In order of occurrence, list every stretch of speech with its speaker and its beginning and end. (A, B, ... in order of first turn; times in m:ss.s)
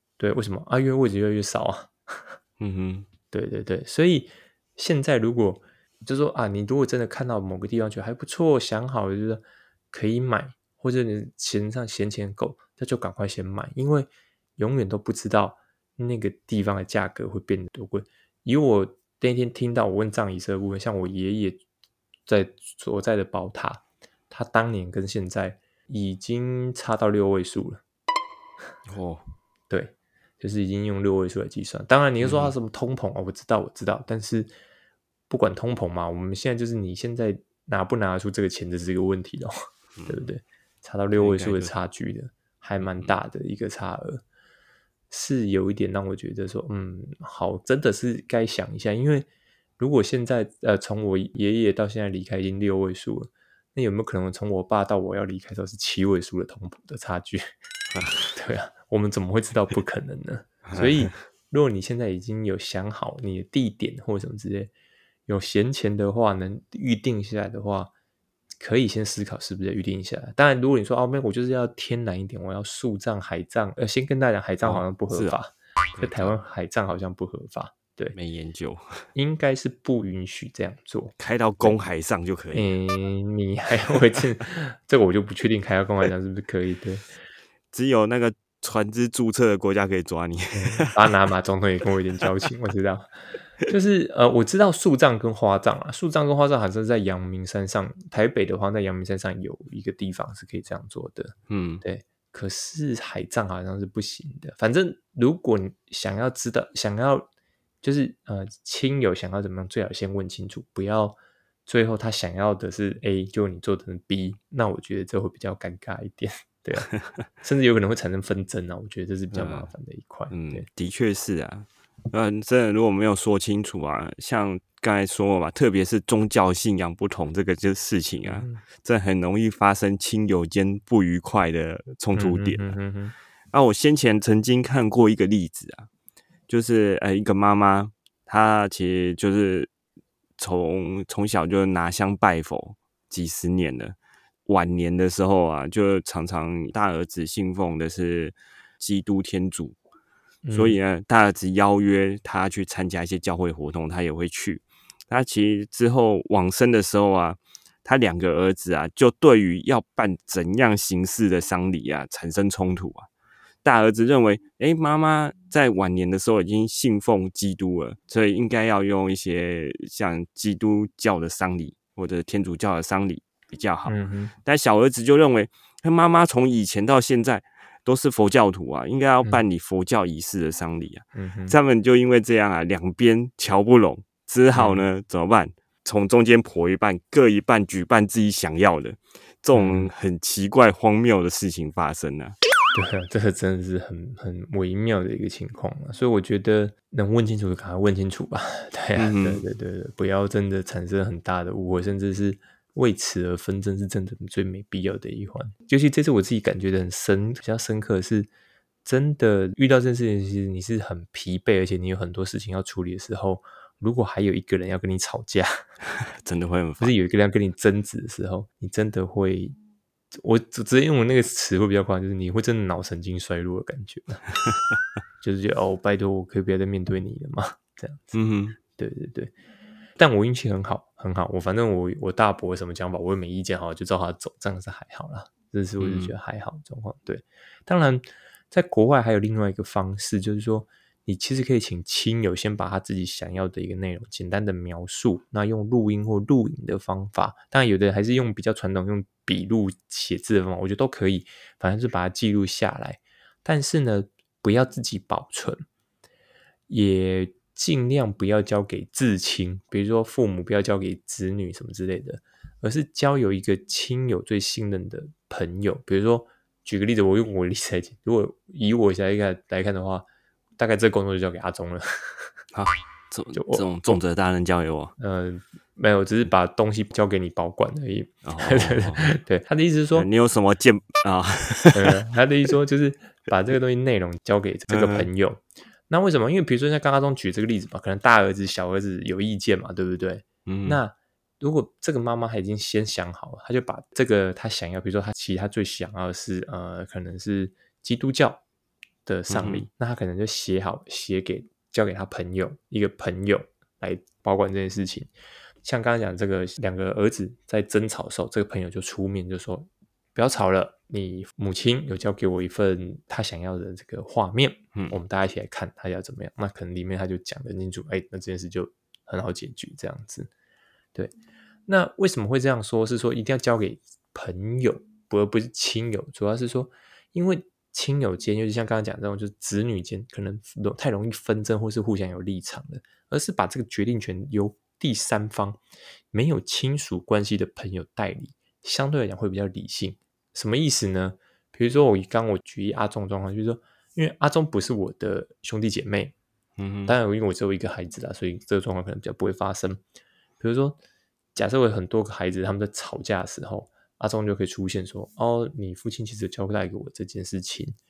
0:00.2-0:02.4 A
0:02.6-0:03.1 B
0:03.3-0:21.6 A
0:22.2-0:27.8 A
0:28.9-0:29.2 B
0:29.7-0:34.5 A
0:32.2-0:32.5 B
0:35.3-0:39.5 A
0:40.0-0:40.2 B
0:40.0-0:44.2 A
0:41.1-0:41.7 B
0:42.8-0:43.2 B
0:45.1-0:49.3 A
0:49.8-0:57.5 A
0:57.9-0:58.3 B
0:58.3-1:04.7 A
1:00.7-1:01.1 B
1:05.3-1:07.9 A
1:08.6-1:18.2 A
1:14.6-1:15.4 B
1:15.9-1:16.3 B
1:18.1-1:19.0 B
1:19.1-1:21.8 A
1:21.2-1:22.7 B
1:22.5-1:27.0 A
1:27.7-1:30.9 B
1:30.5-1:47.3 A
1:41.5-1:41.8 B
1:47.8-2:00.6 A
1:56.9-1:57.2 B
1:59.3-1:59.7 B
2:00.3-2:12.8 B
2:08.2-2:08.6 A
2:12.1-2:13.1 A
2:13.5-2:15.9 B
2:16.5-2:19.7 B
2:20.4-2:24.0 B
2:24.5-2:29.8 B
2:30.4-2:30.8 A
2:30.5-2:43.1 B
2:43.6-3:12.4 B
2:53.9-2:54.3 A
3:01.1-3:01.6 A
3:04.5-3:04.8 A
3:09.5-3:09.9 A
3:12.7-3:28.3 A
3:19.0-3:19.4 B
3:28.8-3:35.6 A
3:36.0-3:36.9 B
3:36.8-3:39.6 A
3:40.1-3:44.2 A
3:45.2-3:49.3 A
3:48.1-3:48.6 B
3:50.0-4:15.6 A
3:55.8-3:56.1 B
4:16.7-4:30.1 A
4:30.6-4:32.3 A
4:32.5-4:34.9 B
4:33.3-4:34.0 A
4:35.0-4:40.1 A
4:38.2-4:39.2 B
4:39.9-4:42.0 B
4:41.7-4:58.4 A
4:44.7-4:45.1 B
4:50.4-4:50.8 B
4:59.0-5:05.1 A
4:59.3-4:59.6 B
5:05.6-5:20.3 A
5:21.7-5:35.6 A
5:36.1-5:46.1 A
5:46.6-5:46.9 B
5:46.8-5:49.8 A
5:50.4-5:50.8 A
5:51.3-5:57.8 A